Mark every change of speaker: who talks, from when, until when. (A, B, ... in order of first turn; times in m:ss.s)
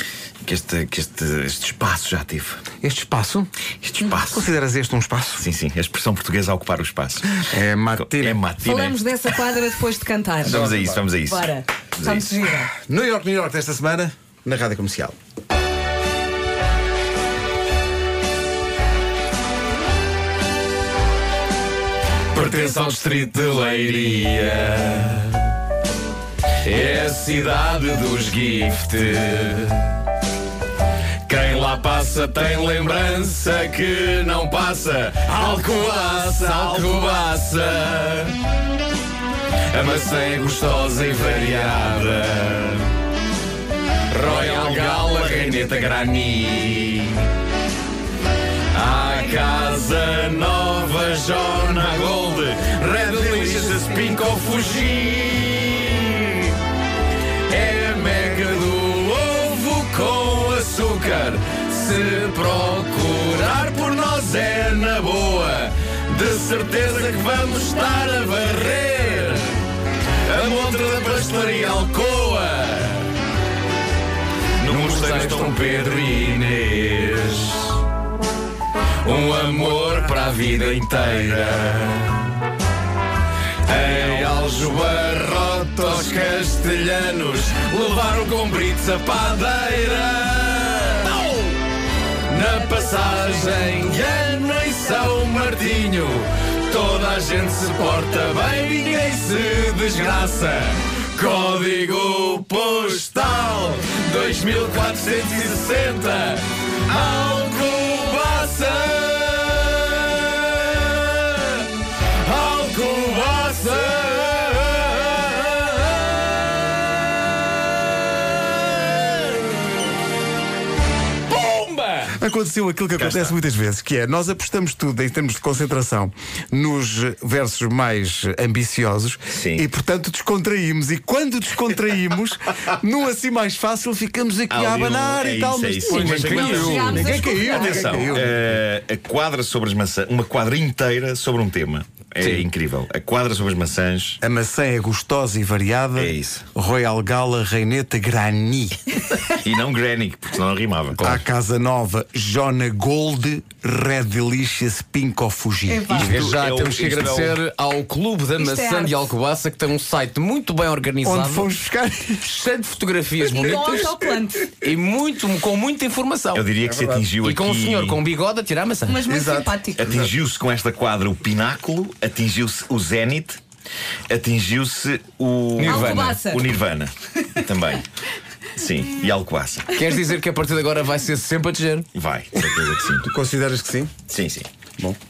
0:00.4-0:02.6 A
0:02.8-0:03.5 B
0:03.8-0:04.4 A
0:04.2-0:05.4 B
0:05.4-0:07.4 A
0:07.5-0:08.4 B
0:08.0-0:09.7 A
0:08.6-0:12.7 C
0:10.4-0:12.4 A
0:10.4-0:11.0 B
0:12.8-0:15.1 B
0:22.3-0:25.5 D
0:26.6-0:30.0 D
0:31.2-0:38.3 D
0:39.7-0:42.8 D
0:44.1-0:47.2 D
0:48.7-0:56.6 D
0:57.5-1:09.6 D
1:10.2-1:13.1 D
1:14.6-1:15.6 A
1:14.6-1:17.8 D
1:19.0-1:22.4 D
1:23.6-1:31.4 D
1:32.3-1:56.3 D
2:01.3-2:02.1 D
2:02.1-2:18.4 B
2:03.0-2:03.4 A
2:09.3-2:09.7 A
2:14.5-2:24.2 A
2:15.9-2:16.9 D
2:16.2-2:18.1 C
2:22.2-2:22.4 D
2:24.2-2:28.9 B
2:26.0-2:26.5 A
2:29.4-2:31.0 A
2:30.9-2:31.2 D
2:31.0-2:36.2 B
2:35.7-2:36.1 C
2:36.0-2:41.5 D
2:36.0-2:37.4 A
2:38.4-2:39.1 C
2:41.0-2:42.3 B
2:42.2-2:44.0 D
2:43.2-2:44.5 C
2:44.5-2:46.5 D
2:46.3-2:48.0 A
2:46.6-2:47.0 B
2:47.2-2:49.0 D
2:48.8-2:49.8 C
2:49.0-2:50.1 B
2:49.8-2:53.4 A
2:54.1-2:57.8 A
2:55.6-2:56.2 D
2:55.6-2:56.4 C
2:58.6-2:59.7 A
2:59.7-3:01.8 D
3:01.9-3:03.1 A
3:03.0-3:03.9 B
3:04.1-3:04.5 A